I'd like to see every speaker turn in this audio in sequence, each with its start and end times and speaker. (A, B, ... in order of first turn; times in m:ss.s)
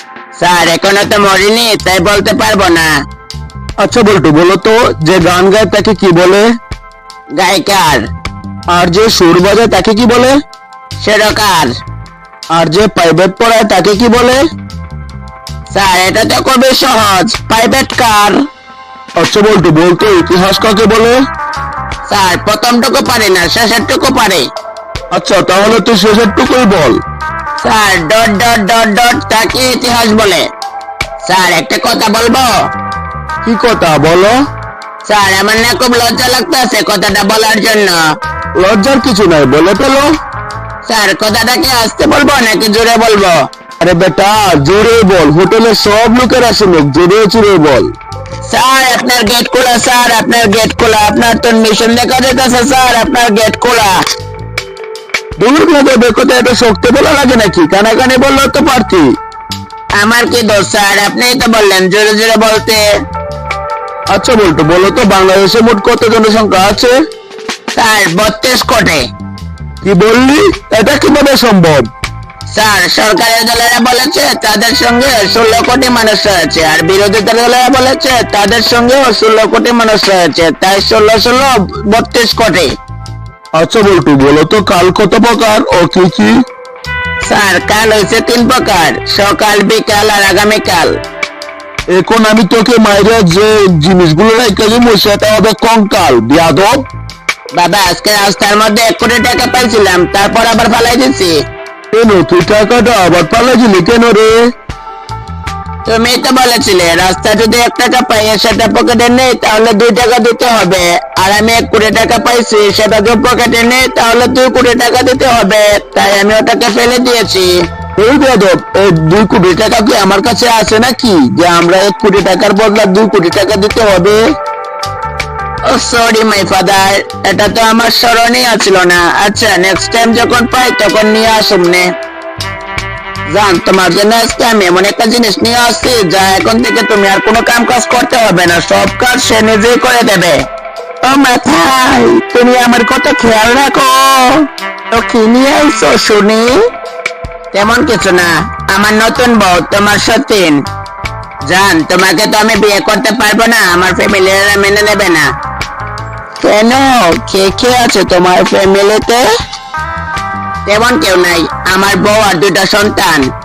0:00.4-0:02.9 A
0:03.8-0:06.5 B
0:07.4-0:08.1 A
0:08.7-0:10.4 B
0:11.0-0:11.7 A
0:12.5-0:14.4 B
0:15.7-0:18.4 A
0:19.2-0:21.2 B
0:22.1-0:24.4 A
0:25.1-0:27.0 B
0:27.6-0:30.5 A
0:31.2-0:32.5 A
0:33.4-0:34.4 B
0:35.0-0:38.0 A
0:38.6-0:40.1 B
0:40.8-0:43.4 A
0:43.8-0:47.9 B
0:48.5-0:54.0 A
0:55.4-0:59.1 B
1:00.0-1:02.8 A
1:04.1-1:06.9 B
1:07.8-1:09.1 A
1:09.8-1:11.9 B
1:12.5-1:22.7 A
1:23.6-1:26.3 B
1:27.3-1:31.0 A
1:31.9-1:36.9 B
1:37.5-1:41.4 A
1:41.9-1:44.4 B
1:45.9-1:57.5 A
1:58.0-2:04.2 B
2:01.0-2:01.5 A
2:05.7-2:11.9 A
2:13.3-2:20.4 A
2:21.0-2:26.6 A
2:27.5-2:30.6 A
2:31.5-2:35.3 A
2:36.4-2:39.3 A
2:40.7-2:43.3 A